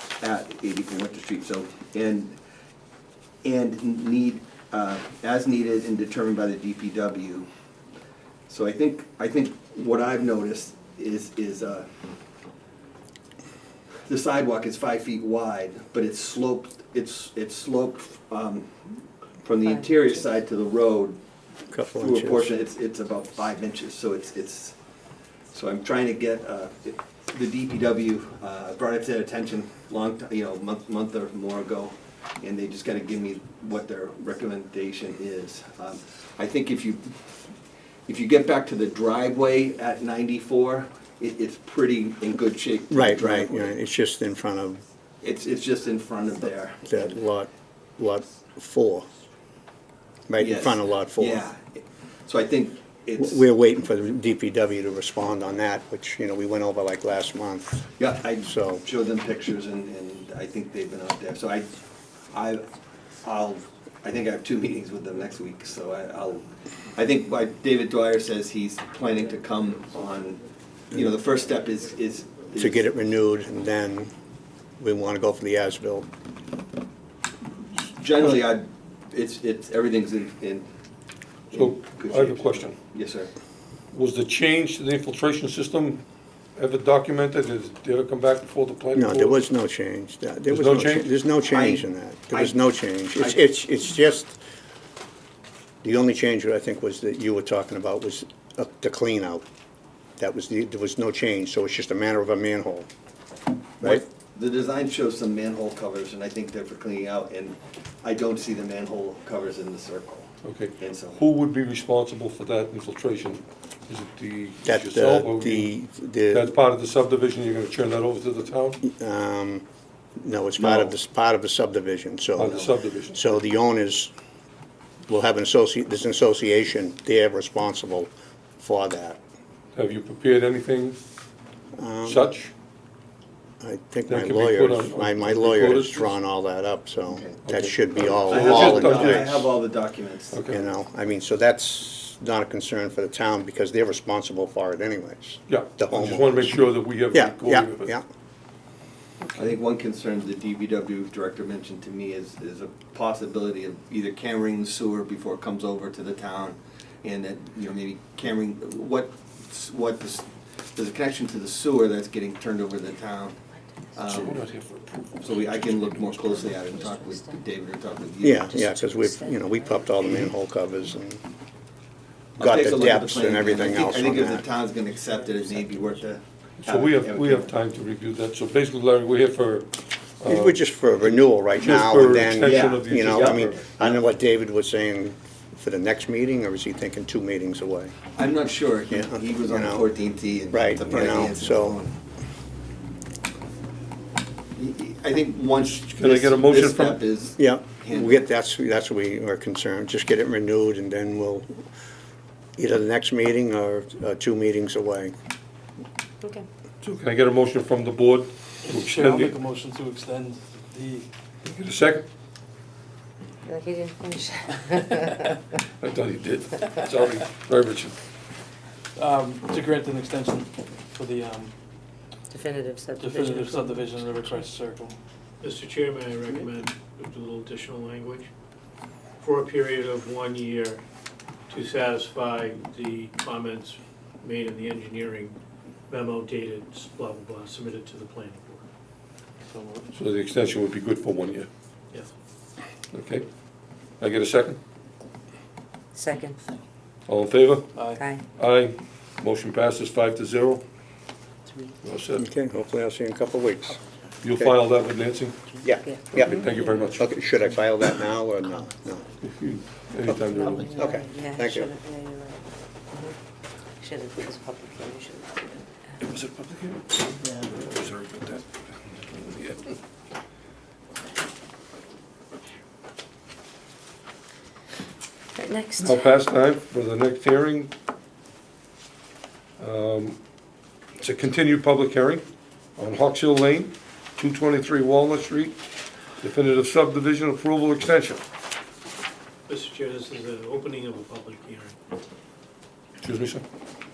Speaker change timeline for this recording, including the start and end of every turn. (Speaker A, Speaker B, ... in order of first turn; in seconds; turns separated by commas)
Speaker A: 0.2-2.4, Speaker A: 3.4-7.5, Speaker A: 8.5-11.9, Speaker A: 14.1-18.8, Speaker A: 19.4-21.2, Speaker B: 21.7-22.5, Speaker A: 21.8-24.8, Speaker A: 25.5-37.1, Speaker A: 38.1-43.8, Speaker B: 42.9-44.8, Speaker A: 45.2-47.1, Speaker B: 46.9-49.1, Speaker B: 50.3-51.4, Speaker A: 50.4-53.4, Speaker B: 53.2-57.9, Speaker A: 58.0-61.7, Speaker B: 58.4-58.8, Speaker A: 62.3-62.7, Speaker A: 63.2-72.9, Speaker B: 72.6-74.1, Speaker B: 74.8-76.1, Speaker A: 77.7-80.7, Speaker A: 81.5-83.3, Speaker C: 81.5-82.8, Speaker C: 83.9-86.0, Speaker C: 86.5-89.4, Speaker B: 88.9-94.4, Speaker C: 90.5-91.1, Speaker A: 91.5-92.5, Speaker B: 95.8-99.4, Speaker B: 100.2-102.9, Speaker A: 103.8-111.2, Speaker C: 110.4-115.7, Speaker B: 114.6-116.5, Speaker C: 116.3-118.8, Speaker B: 118.8-119.6, Speaker B: 120.2-124.1, Speaker C: 120.6-120.9, Speaker C: 122.3-123.4, Speaker A: 122.4-122.7, Speaker B: 125.1-129.2, Speaker C: 129.7-131.0, Speaker B: 131.7-132.3, Speaker C: 132.1-132.5, Speaker B: 133.6-139.4, Speaker C: 134.1-136.2, Speaker A: 137.1-137.4, Speaker C: 137.4-139.4, Speaker A: 138.3-140.4, Speaker C: 140.3-140.6, Speaker B: 140.5-146.6, Speaker C: 145.5-147.9, Speaker B: 147.1-148.0, Speaker A: 149.3-163.4, Speaker D: 163.5-164.2, Speaker A: 163.9-164.4, Speaker C: 164.1-166.0, Speaker A: 165.2-168.7, Speaker D: 166.0-167.4, Speaker B: 168.2-171.2, Speaker D: 168.6-170.3, Speaker B: 172.4-174.4, Speaker A: 172.4-177.5, Speaker C: 176.6-183.5, Speaker B: 180.2-187.9, Speaker A: 182.4-184.0, Speaker A: 188.2-191.9, Speaker B: 188.9-189.9, Speaker B: 190.5-191.8, Speaker A: 194.6-198.2, Speaker C: 195.6-197.0, Speaker B: 197.4-201.6, Speaker B: 202.6-205.1, Speaker C: 206.8-209.4, Speaker E: 208.6-211.1, Speaker C: 211.4-212.1, Speaker D: 213.4-215.4, Speaker C: 215.8-218.0, Speaker E: 218.9-221.5, Speaker D: 222.3-224.4, Speaker E: 223.0-225.0, Speaker F: 225.4-228.3, Speaker F: 229.2-230.8, Speaker F: 231.5-235.3, Speaker F: 235.9-238.6, Speaker E: 239.5-239.9, Speaker C: 239.9-241.5, Speaker C: 242.9-243.2, Speaker C: 244.0-244.6, Speaker D: 245.9-246.4, Speaker C: 247.1-250.6, Speaker E: 247.7-248.0, Speaker D: 247.9-248.2, Speaker C: 251.8-252.3, Speaker B: 252.2-253.8, Speaker C: 254.2-255.6, Speaker B: 255.6-259.1, Speaker D: 255.6-256.9, Speaker C: 256.2-257.0, Speaker C: 259.2-260.7, Speaker D: 260.3-263.1, Speaker B: 260.5-261.7, Speaker D: 263.8-265.4, Speaker C: 266.1-269.7, Speaker D: 275.4-276.0, Speaker C: 275.8-277.7, Speaker C: 279.6-280.2, Speaker C: 281.0-282.2, Speaker C: 282.8-285.6, Speaker C: 286.2-288.2, Speaker F: 289.5-291.8, Speaker C: 293.0-293.4